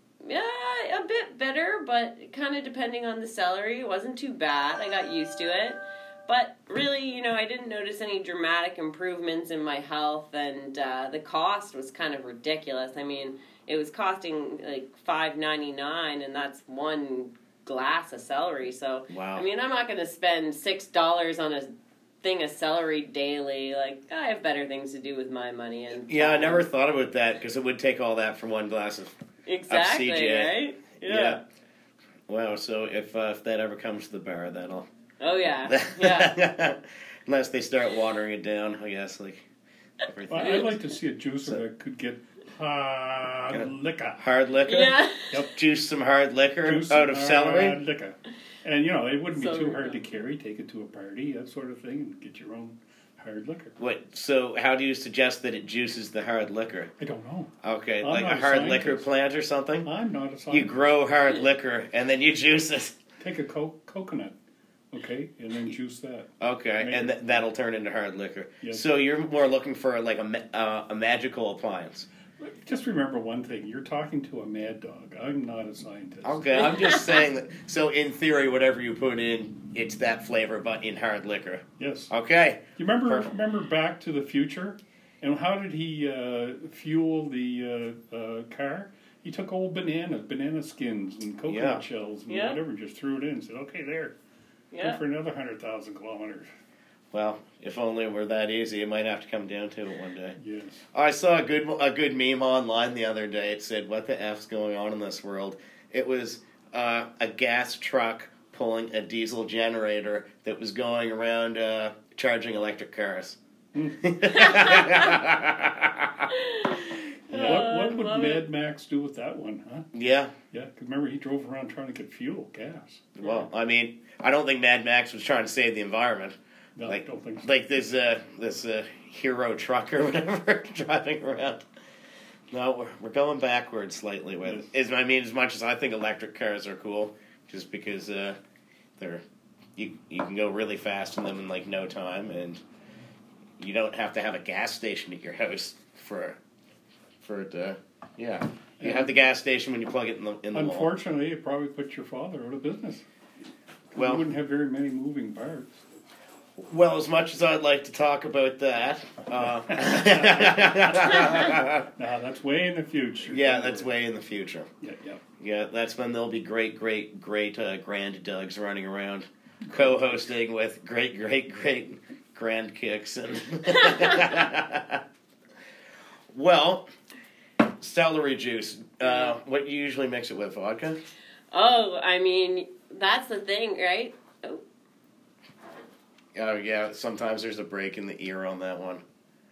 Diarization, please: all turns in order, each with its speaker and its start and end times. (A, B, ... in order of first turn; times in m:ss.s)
0:00.2-0:21.7 A
0:19.1-0:19.4 B
0:22.2-0:26.6 A
0:26.1-0:29.1 B
0:29.4-0:31.4 A
0:29.7-0:31.4 B
0:32.3-0:34.9 B
0:35.2-0:36.4 A
0:35.7-0:39.4 B
0:40.0-0:40.7 B
0:40.3-0:44.2 C
0:43.5-0:45.0 B
0:44.7-0:45.4 A
0:45.3-0:45.6 C
0:45.5-0:47.8 B
0:46.6-0:53.8 C
0:49.3-0:50.0 A
0:53.8-0:56.9 B
0:57.0-0:57.5 C
0:57.6-0:59.9 B
0:58.0-0:59.0 C
0:59.8-1:00.9 C
1:00.5-1:03.0 B
1:03.2-1:04.3 C
1:04.9-1:07.2 C
1:06.4-1:12.1 B
1:12.4-1:17.0 C
1:16.2-1:23.3 B
1:16.6-1:17.0 A
1:21.8-1:22.1 C
1:22.8-1:34.1 C
1:31.4-1:31.8 B
1:32.3-1:32.6 A
1:34.7-1:35.0 A
1:34.8-1:36.5 C
1:37.1-1:40.4 B
1:40.4-1:40.8 C
1:40.9-1:53.4 B
1:53.7-1:54.0 C
1:54.0-1:56.3 B
1:54.3-1:55.1 A
1:56.3-1:58.5 A
1:57.3-1:59.8 C
1:57.3-1:57.6 B
1:59.9-2:00.3 B
2:00.5-2:03.4 C
2:03.2-2:11.6 B
2:06.8-2:07.5 C
2:12.5-2:18.4 B
2:19.8-2:22.6 B
2:23.6-2:26.4 B
2:27.2-2:30.9 B
2:28.8-2:29.2 C
2:30.5-2:33.0 C
2:33.9-2:35.8 C
2:34.0-2:34.2 B
2:36.6-2:41.8 B
2:39.7-2:43.9 C
2:43.3-2:44.7 B
2:44.8-2:45.2 C
2:45.4-2:55.0 B
2:49.6-2:50.2 C
2:56.3-2:56.9 B
2:57.8-3:01.0 B
3:01.5-3:04.6 A
3:06.3-3:09.0 B